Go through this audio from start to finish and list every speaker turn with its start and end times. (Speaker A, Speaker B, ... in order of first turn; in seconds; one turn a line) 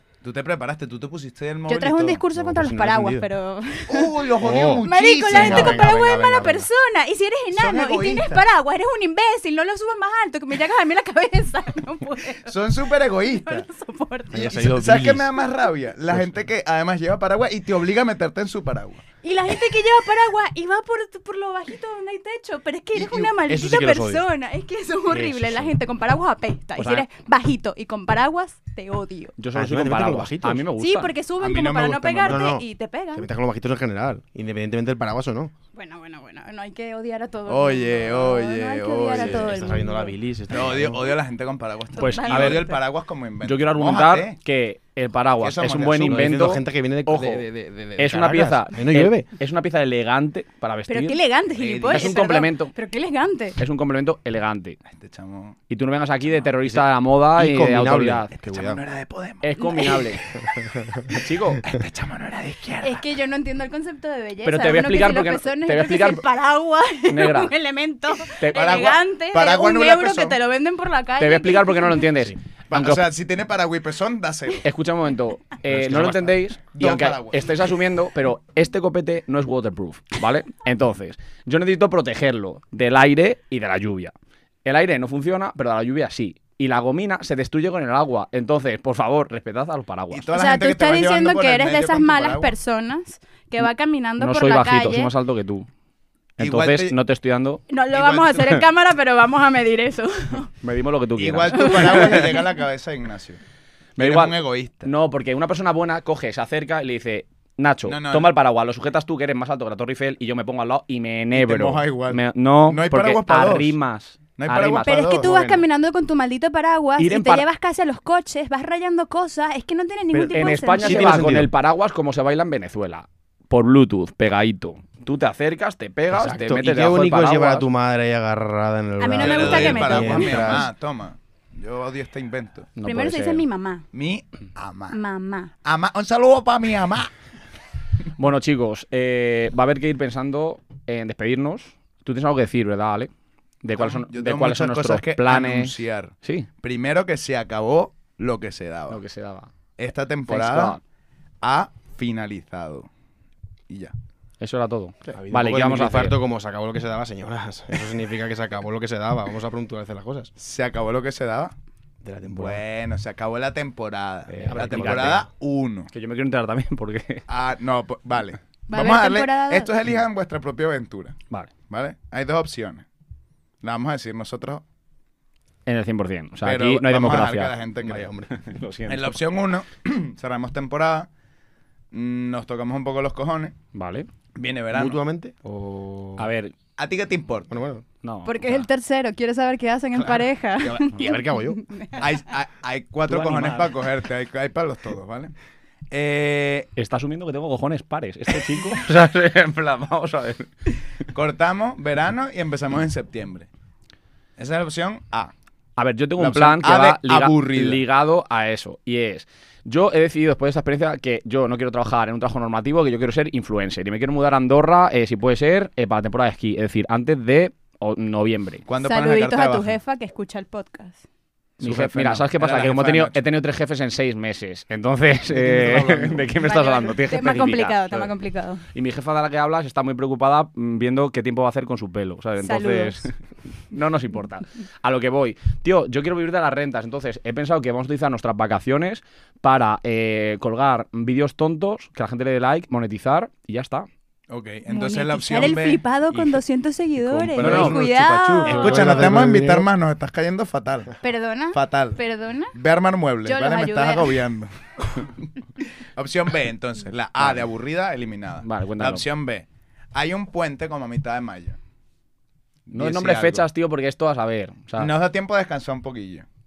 Speaker A: 0.2-2.2
Speaker B: 1.6-14.5
Speaker C: 2.3-3.2
Speaker A: 3.9-6.0
Speaker C: 4.4-6.7
Speaker A: 7.5-8.4
Speaker A: 12.5-13.6
Speaker C: 14.3-15.3
Speaker A: 14.3-19.0
Speaker C: 16.1-16.4
Speaker B: 19.2-29.3
Speaker A: 23.0-23.3
Speaker C: 23.4-24.2
Speaker C: 25.1-25.8
Speaker D: 26.8-27.1
Speaker D: 29.4-31.1
Speaker C: 29.5-30.6
Speaker B: 30.8-33.3
Speaker A: 31.4-32.5
Speaker C: 32.2-35.5
Speaker B: 35.7-40.1
Speaker A: 37.5-39.5
Speaker C: 39.1-41.1
Speaker A: 40.5-44.4
Speaker D: 42.0-42.7
Speaker B: 42.0-42.8
Speaker D: 43.4-51.2
Speaker A: 45.4-46.3
Speaker C: 45.9-49.3
Speaker B: 50.9-53.6
Speaker A: 51.5-52.2
Speaker D: 51.9-52.7
Speaker D: 53.6-54.8
Speaker A: 54.9-55.6
Speaker D: 55.7-58.3
Speaker C: 56.6-58.8
Speaker A: 58.4-59.4
Speaker D: 59.4-60.2
Speaker B: 59.6-60.1
Speaker C: 60.5-61.1
Speaker D: 61.1-61.6
Speaker A: 61.6-63.0
Speaker B: 62.8-72.1
Speaker D: 64.4-66.2
Speaker D: 67.1-67.5
Speaker D: 68.4-68.7
Speaker A: 68.5-70.4
Speaker D: 71.2-73.0
Speaker A: 72.7-74.7
Speaker D: 74.6-84.1
Speaker C: 75.7-76.3
Speaker A: 76.7-77.5
Speaker D: 84.6-90.3
Speaker A: 90.1-92.5
Speaker B: 90.3-95.1
Speaker D: 94.2-95.7
Speaker D: 96.4-97.6
Speaker A: 96.4-96.9
Speaker B: 97.7-100.5
Speaker A: 97.9-98.6
Speaker D: 100.6-102.2
Speaker A: 101.2-103.4
Speaker B: 101.5-102.6
Speaker D: 104.0-115.6
Speaker A: 104.0-104.9
Speaker A: 107.8-108.3
Speaker A: 111.3-113.7
Speaker A: 114.3-115.3
Speaker B: 114.8-121.3
Speaker D: 117.0-117.4
Speaker C: 120.1-121.5
Speaker D: 120.3-127.7
Speaker C: 126.1-130.7
Speaker B: 129.0-130.7
Speaker A: 129.2-132.7
Speaker D: 132.8-133.4
Speaker B: 132.8-133.8
Speaker A: 133.9-135.0
Speaker B: 134.9-135.5
Speaker A: 135.6-137.1
Speaker D: 138.2-143.1
Speaker D: 143.6-146.5
Speaker A: 143.8-149.0
Speaker D: 148.9-149.5
Speaker A: 149.8-150.8
Speaker D: 150.3-150.8
Speaker A: 151.4-152.9
Speaker A: 153.7-153.9
Speaker D: 154.4-156.2
Speaker C: 155.1-160.3
Speaker A: 160.4-161.5
Speaker C: 162.0-162.6
Speaker A: 162.3-165.9
Speaker C: 164.3-165.3
Speaker D: 164.4-165.2
Speaker D: 165.9-167.2
Speaker A: 167.3-172.8
Speaker B: 168.7-169.7
Speaker A: 173.6-174.6
Speaker D: 175.7-177.5
Speaker A: 176.4-178.1
Speaker C: 177.8-178.4
Speaker D: 178.3-179.2
Speaker A: 178.9-181.1
Speaker A: 181.9-183.6
Speaker D: 183.7-184.1
Speaker A: 184.3-185.0
Speaker C: 184.7-186.3
Speaker D: 186.2-186.5
Speaker A: 186.8-187.5
Speaker C: 187.5-187.8
Speaker D: 188.0-188.7
Speaker B: 188.2-192.1
Speaker C: 190.6-191.6
Speaker A: 192.0-195.3
Speaker D: 193.1-193.7
Speaker A: 195.9-196.7
Speaker D: 196.8-200.5
Speaker A: 201.1-203.5
Speaker A: 204.4-205.3
Speaker D: 205.8-218.6
Speaker A: 206.2-207.8
Speaker A: 218.7-219.8
Speaker B: 218.8-221.0
Speaker A: 221.6-223.2
Speaker D: 221.6-228.1
Speaker A: 225.3-226.3
Speaker B: 226.4-228.7
Speaker D: 228.7-243.9
Speaker B: 232.4-233.1
Speaker A: 244.3-245.8
Speaker B: 244.7-248.8
Speaker C: 246.1-246.4
Speaker C: 247.0-249.7
Speaker D: 247.4-249.3
Speaker A: 248.4-251.0
Speaker B: 251.0-252.5
Speaker A: 251.5-252.0
Speaker A: 252.5-255.3
Speaker B: 253.2-254.2
Speaker A: 255.9-261.6
Speaker D: 257.2-257.4
Speaker D: 258.4-259.0
Speaker A: 262.7-263.5
Speaker D: 262.7-264.9
Speaker A: 264.8-266.2